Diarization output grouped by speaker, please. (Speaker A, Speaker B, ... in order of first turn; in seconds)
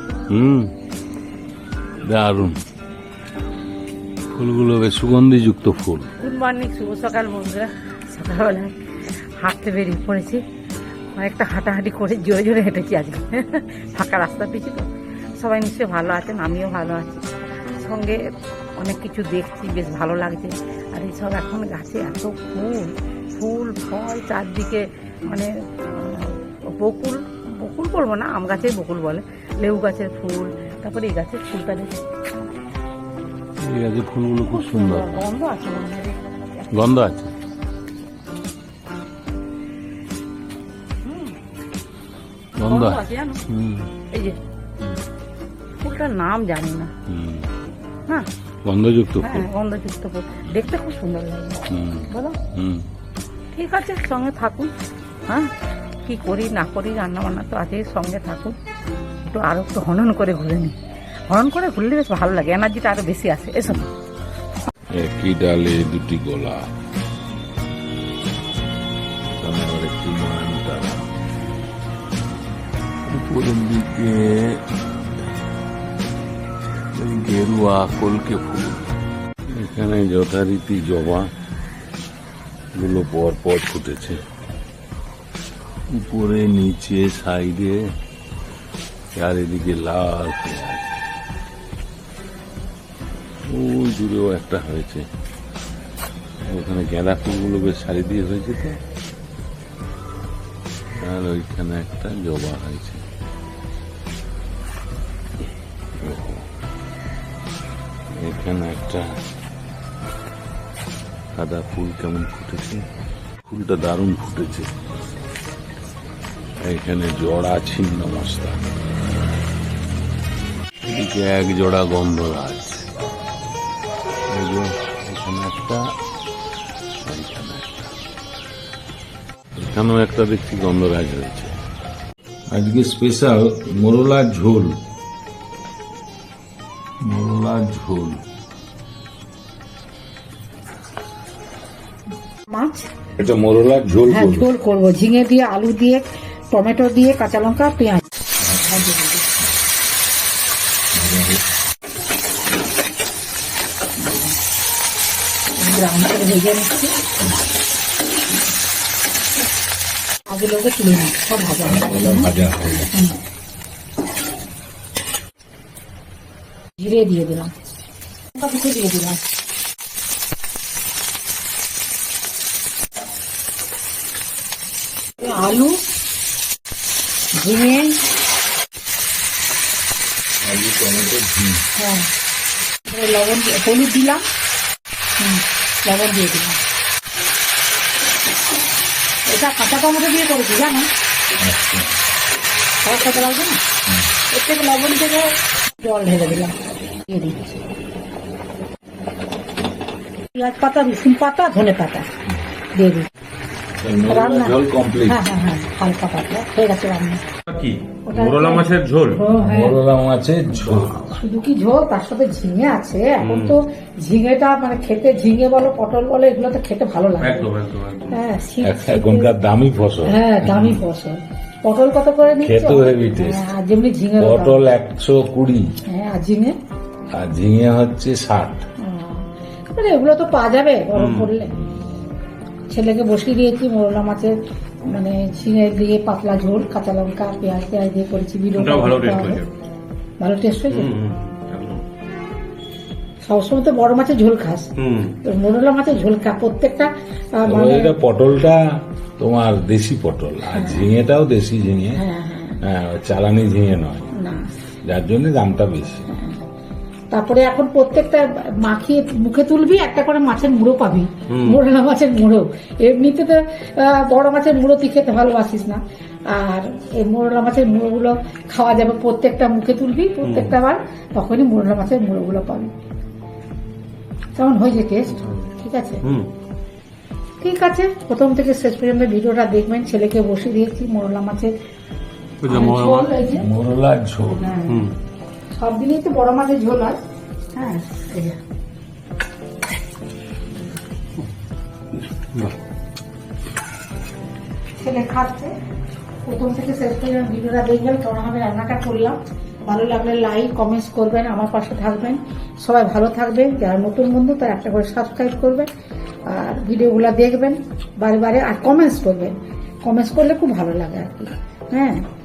Speaker A: 0.3-0.7, 2.0-2.6, 4.3-6.1, 33.6-35.3, 36.7-37.3, 42.6-43.9, 47.1-47.5, 48.6-49.5, 51.7-52.9, 64.9-66.6, 69.3-71.0, 73.1-74.6, 76.9-78.9, 79.5-81.3, 82.8-84.2, 85.9-87.8, 89.1-91.0, 93.5-95.0, 96.4-98.8, 101.0-103.0, 106.0-106.5, 108.2-109.1, 111.3-112.8, 113.4-114.7, 116.6-118.6, 120.8-122.9, 124.3-125.8, 127.0-127.9, 129.6-131.6, 132.5-134.8, 137.1-138.2, 143.2-144.5, 148.4-148.8, 150.9-151.4, 161.7-162.9, 180.4-181.6, 191.4-191.9, 203.8-205.2, 209.4-211.1, 218.6-220.8, 222.4-223.4, 224.2-225.6, 227.1-228.6, 247.5-248.6, 249.2-252.0, 252.6-254.1, 254.8-256.0, 283.3-284.6
Speaker B: 6.2-8.7, 9.4-10.4, 11.1-18.2, 18.8-32.0, 34.5-36.7, 41.0-41.4, 42.6-43.5, 44.1-44.4, 45.8-46.9, 49.2-52.4, 53.5-54.7, 56.0-58.5, 59.2-60.7, 61.3-63.8, 142.5-142.8, 144.1-148.0, 148.6-149.2, 154.0-154.3, 155.6-156.9, 160.3-162.3, 162.9-163.2, 166.8-167.5, 168.3-169.2, 175.2-175.8, 177.3-178.0, 181.8-182.1, 182.9-184.2, 185.2-186.6, 189.2-190.9, 192.8-193.6, 194.3-195.3, 195.8-196.5, 197.1-197.5, 200.3-202.1, 202.8-203.1, 204.1-207.2, 208.1-209.8, 211.0-217.5, 218.1-219.3, 220.0-224.6, 225.9-226.5, 228.8-231.6, 232.7-234.3, 234.9-239.4, 240.2-240.9, 243.2-244.7, 245.2-247.9, 250.5-250.9, 251.9-252.6, 254.1-254.5, 256.1-256.4, 257.1-272.7, 274.3-276.0, 277.4-281.5, 282.4-283.5, 284.3-284.8, 285.5-287.0, 287.5-288.4, 294.8-295.5, 296.2-305.7, 306.3-312.1
Speaker C: 207.5-209.2, 213.2-213.6, 217.2-218.2, 230.9-231.3, 238.6-239.5, 240.7-241.8, 244.8-245.2, 261.3-261.6, 270.2-270.5, 276.0-276.3, 282.4-283.1, 284.7-284.9